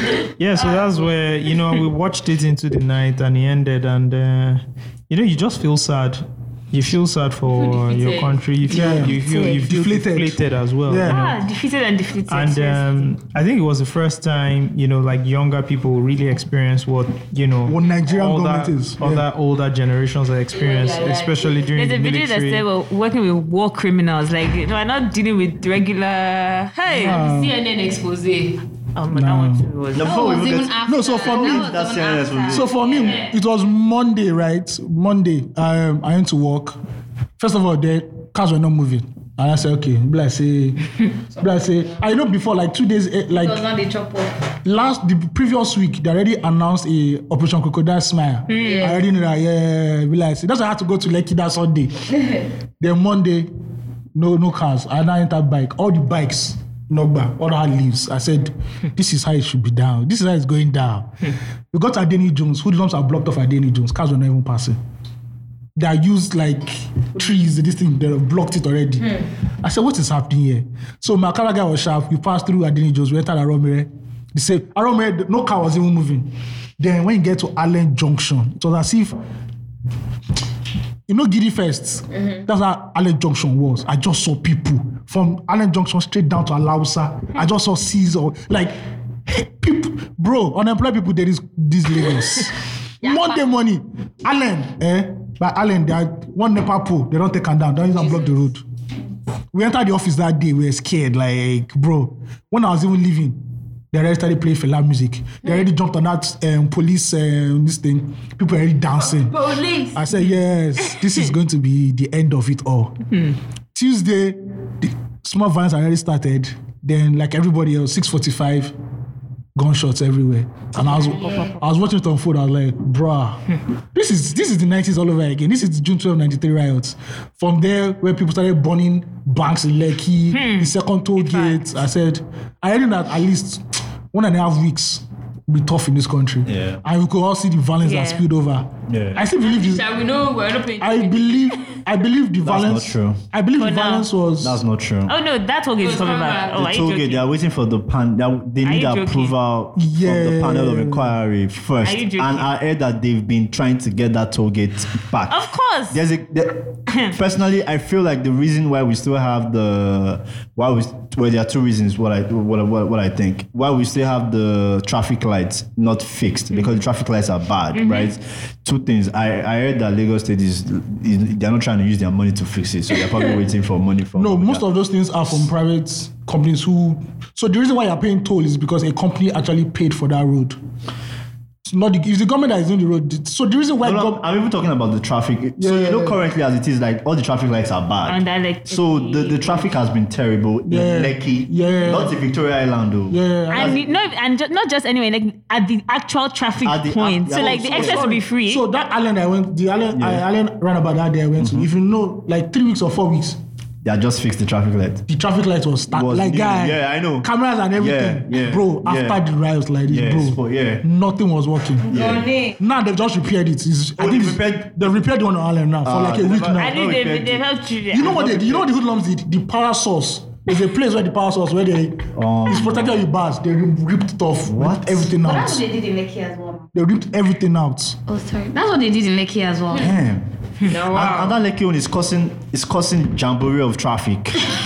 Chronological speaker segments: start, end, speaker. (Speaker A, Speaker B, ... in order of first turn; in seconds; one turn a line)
Speaker A: 0.4-11.2
Speaker B: 0.5-1.2
Speaker B: 7.5-9.0
Speaker C: 8.7-11.3
Speaker D: 11.1-13.1
Speaker A: 12.3-22.6
Speaker C: 17.6-19.2
Speaker B: 20.5-21.7
Speaker D: 21.8-27.2
Speaker C: 26.9-27.5
Speaker B: 27.0-28.6
Speaker D: 28.9-30.3
Speaker C: 29.1-29.7
Speaker E: 29.9-32.8
Speaker F: 30.0-32.7
Speaker C: 30.8-31.7
Speaker C: 32.5-36.8
Speaker B: 32.9-33.4
Speaker C: 37.4-40.8
Speaker B: 41.3-42.0
Speaker C: 41.4-43.6
Speaker F: 43.3-44.3
Speaker C: 44.6-51.9
Speaker D: 48.5-48.9
Speaker B: 48.6-49.0
Speaker C: 52.8-53.5
Speaker C: 54.1-61.1
Speaker C: 61.7-64.8
Speaker C: 65.8-69.1
Speaker C: 69.6-76.3
Speaker C: 76.8-79.2
Speaker C: 81.1-88.7
Speaker B: 82.1-82.4
Speaker C: 89.3-98.6
Speaker B: 98.0-98.5
Speaker C: 99.5-103.3
Speaker C: 103.9-109.4
Speaker B: 108.9-110.0
Speaker C: 109.9-112.9
Speaker C: 113.7-118.7
Speaker C: 119.5-123.4
Speaker C: 123.9-139.8
Speaker D: 130.3-130.7
Speaker E: 136.4-136.8
Speaker D: 137.8-138.2
Speaker E: 138.9-139.2
Speaker B: 139.4-141.8
Speaker C: 140.8-144.6
Speaker E: 142.4-143.2
Speaker D: 143.6-144.1
Speaker E: 144.4-145.1
Speaker D: 145.1-147.2
Speaker B: 145.8-146.6
Speaker E: 146.5-174.6
Speaker D: 148.6-149.3
Speaker C: 149.7-151.2
Speaker D: 151.8-152.5
Speaker D: 155.3-156.0
Speaker D: 167.7-168.1
Speaker C: 174.1-180.6
Speaker C: 181.7-184.2
Speaker E: 183.8-193.8
Speaker C: 185.6-186.2
Speaker D: 188.1-189.7
Speaker C: 190.7-192.1
Speaker C: 193.1-193.8
Speaker D: 193.5-198.6
Speaker E: 196.6-198.1
Speaker C: 198.4-203.4
Speaker E: 199.9-200.2
Speaker E: 201.4-201.7
Speaker E: 203.8-205.0
Speaker C: 205.1-211.9
Speaker E: 205.9-209.2
Speaker E: 209.8-210.8
Speaker B: 211.9-212.6
Speaker E: 211.9-212.3
Speaker C: 212.6-216.7
Speaker E: 214.0-214.8
Speaker E: 215.8-217.4
Speaker D: 216.6-218.6
Speaker C: 217.9-225.6
Speaker E: 218.1-218.4
Speaker E: 222.1-223.0
Speaker E: 224.4-225.1
Speaker F: 225.2-226.7
Speaker C: 226.7-228.0
Speaker F: 228.1-229.9
Speaker E: 229.8-234.5
Speaker B: 230.7-231.4